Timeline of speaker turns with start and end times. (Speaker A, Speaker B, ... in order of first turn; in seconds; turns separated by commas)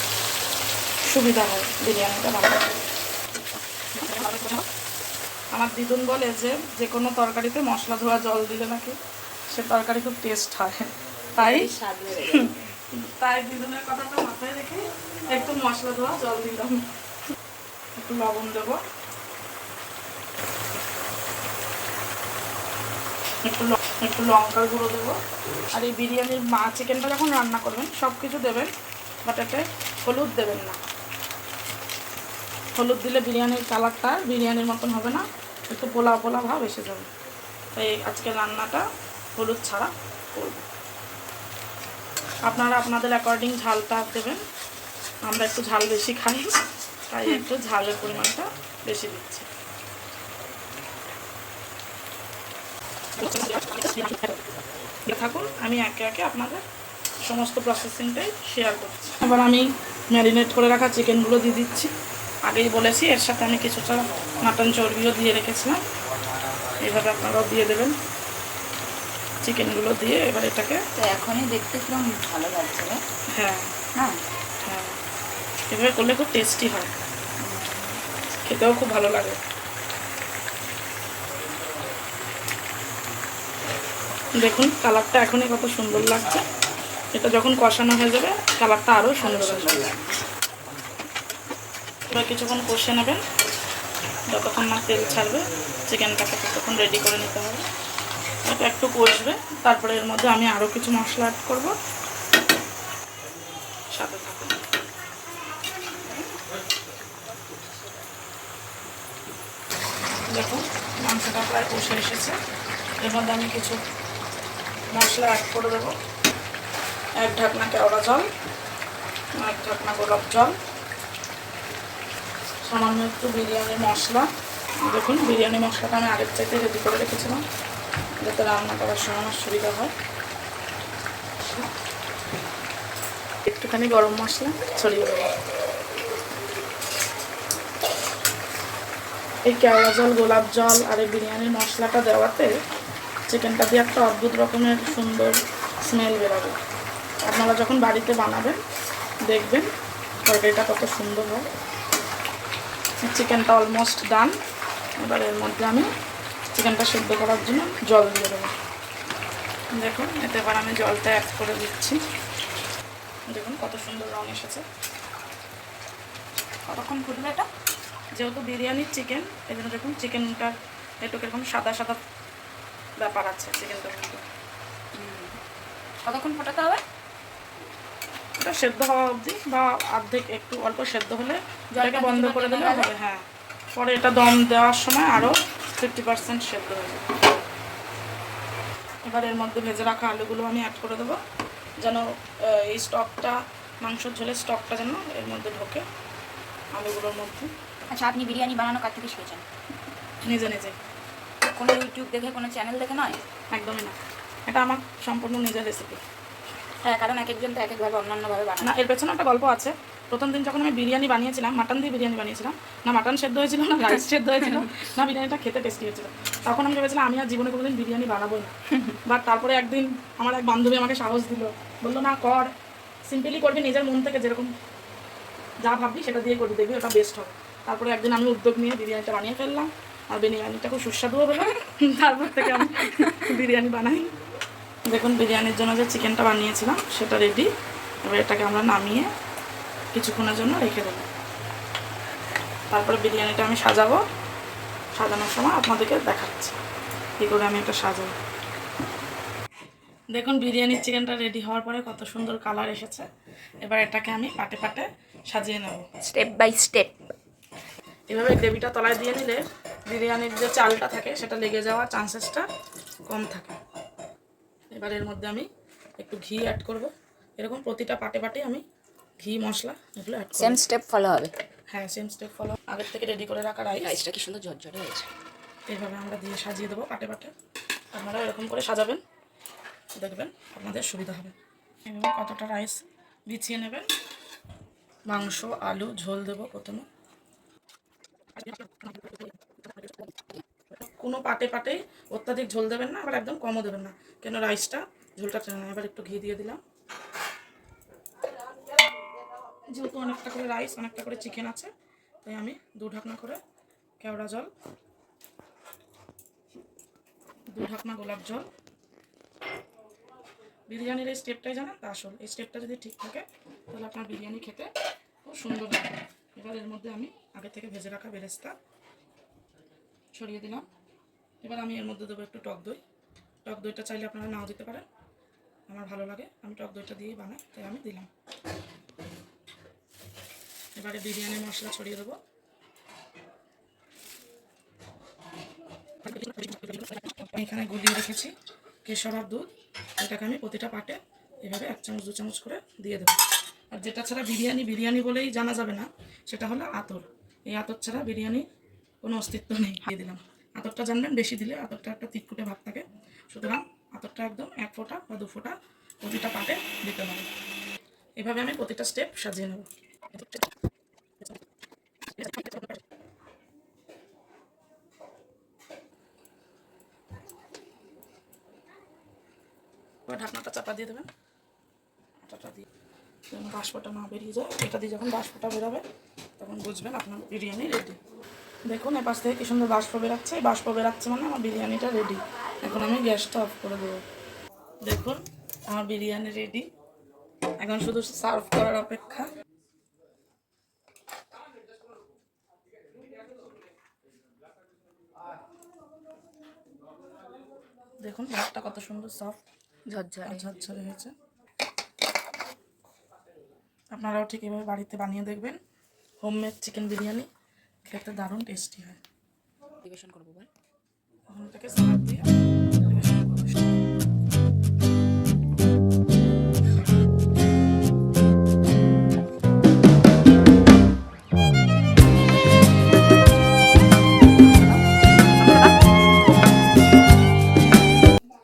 Speaker A: 1.0-2.8, Speaker A: 3.9-4.6, Speaker A: 5.5-8.9, Speaker A: 9.5-16.9, Speaker B: 11.4-12.5, Speaker A: 17.9-18.8, Speaker A: 23.4-25.2, Speaker A: 25.7-28.7, Speaker A: 29.2-30.8, Speaker A: 32.7-37.1, Speaker A: 37.7-38.8, Speaker A: 39.4-40.6, Speaker A: 42.4-44.4, Speaker A: 45.2-49.5, Speaker A: 53.2-54.4, Speaker A: 55.0-56.6, Speaker A: 57.2-61.9, Speaker A: 62.4-65.8, Speaker A: 66.8-67.9, Speaker A: 69.4-70.8, Speaker B: 71.0-73.0, Speaker A: 73.3-73.7, Speaker B: 73.9-74.2, Speaker A: 74.6-75.0, Speaker A: 75.7-76.9, Speaker B: 77.4-78.0, Speaker A: 78.4-79.4, Speaker A: 84.3-86.4, Speaker A: 87.1-89.8, Speaker B: 89.2-90.2, Speaker A: 92.1-93.2, Speaker A: 94.3-97.6, Speaker A: 98.4-101.7, Speaker A: 103.9-104.6, Speaker A: 110.3-112.4, Speaker A: 113.0-113.8, Speaker A: 114.9-116.0, Speaker A: 117.2-118.3, Speaker A: 119.4-120.5, Speaker A: 122.6-124.3, Speaker A: 124.8-127.4, Speaker A: 128.2-129.9, Speaker A: 133.4-135.3, Speaker A: 139.4-142.5, Speaker A: 143.3-146.6, Speaker A: 147.2-148.6, Speaker A: 149.3-149.7, Speaker A: 150.2-151.5, Speaker A: 153.0-154.3, Speaker A: 155.0-155.9, Speaker A: 156.5-158.5, Speaker A: 159.7-162.0, Speaker A: 163.3-164.6, Speaker B: 166.7-167.5, Speaker A: 168.1-172.0, Speaker A: 173.0-174.2, Speaker B: 174.9-175.3, Speaker B: 176.1-176.8, Speaker A: 178.4-183.2, Speaker B: 181.7-182.9, Speaker A: 183.7-187.0, Speaker A: 189.0-191.2, Speaker A: 191.8-195.8, Speaker A: 196.7-197.5, Speaker B: 197.9-199.4, Speaker A: 200.2-200.8, Speaker B: 201.5-203.2, Speaker A: 203.5-203.9, Speaker A: 204.5-206.0, Speaker B: 206.8-208.8, Speaker A: 208.6-218.5, Speaker B: 214.4-214.8, Speaker A: 219.1-222.5, Speaker A: 223.0-224.5, Speaker A: 225.6-234.1, Speaker B: 232.6-233.2, Speaker A: 234.9-237.5, Speaker A: 238.0-239.1, Speaker A: 239.9-241.1, Speaker A: 242.7-244.0, Speaker A: 244.9-246.5, Speaker A: 247.2-248.1, Speaker A: 250.1-253.1, Speaker A: 253.6-255.8, Speaker B: 256.0-256.9, Speaker A: 258.1-262.5, Speaker A: 263.1-263.5, Speaker A: 264.7-265.5, Speaker A: 266.0-268.6, Speaker A: 269.2-270.6, Speaker B: 270.4-271.3, Speaker A: 271.7-274.0, Speaker B: 273.8-275.1, Speaker A: 275.7-277.3, Speaker A: 277.9-279.0, Speaker A: 279.9-281.3, Speaker A: 281.9-283.9, Speaker A: 285.1-286.9, Speaker A: 290.7-296.6, Speaker A: 299.7-301.7, Speaker A: 302.2-303.4, Speaker A: 304.0-304.5, Speaker A: 307.5-308.5, Speaker A: 310.7-314.7, Speaker A: 315.2-318.6, Speaker A: 320.1-320.6, Speaker A: 321.4-322.8, Speaker A: 323.4-324.8, Speaker A: 325.7-328.1, Speaker A: 330.7-332.2, Speaker A: 336.0-343.1, Speaker A: 343.7-348.4, Speaker A: 349.0-357.3, Speaker A: 358.2-360.4, Speaker A: 362.1-362.8, Speaker A: 370.1-371.1, Speaker A: 372.2-372.6, Speaker A: 373.3-375.8, Speaker A: 376.4-378.0, Speaker A: 378.7-384.0, Speaker A: 384.8-386.7, Speaker A: 387.6-389.2, Speaker A: 398.0-399.4, Speaker B: 399.9-400.5, Speaker A: 400.2-401.1, Speaker A: 403.9-405.6, Speaker A: 406.2-407.3, Speaker A: 407.8-409.0, Speaker B: 409.8-410.5, Speaker A: 411.3-412.3, Speaker A: 412.8-413.7, Speaker B: 424.4-424.8, Speaker B: 425.3-425.8